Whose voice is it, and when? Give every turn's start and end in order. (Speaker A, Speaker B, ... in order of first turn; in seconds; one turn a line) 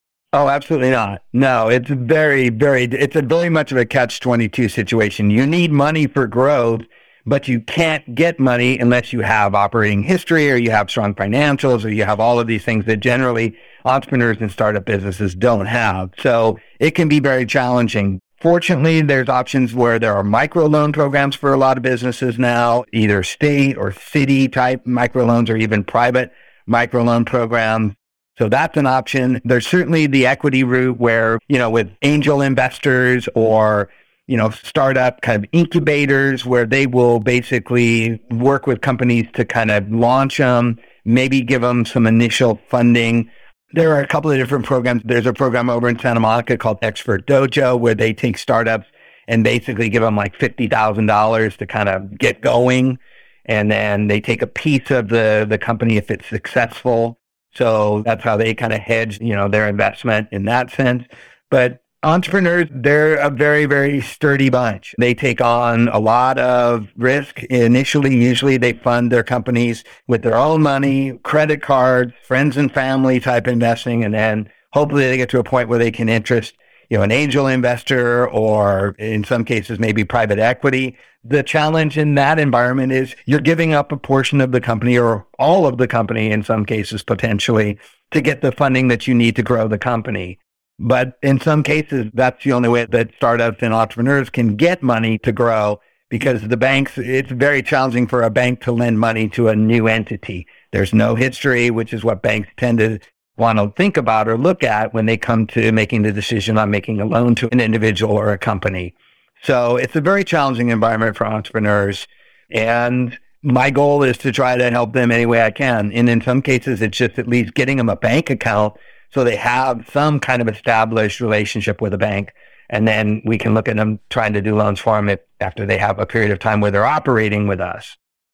Speaker A: 0.3-128.0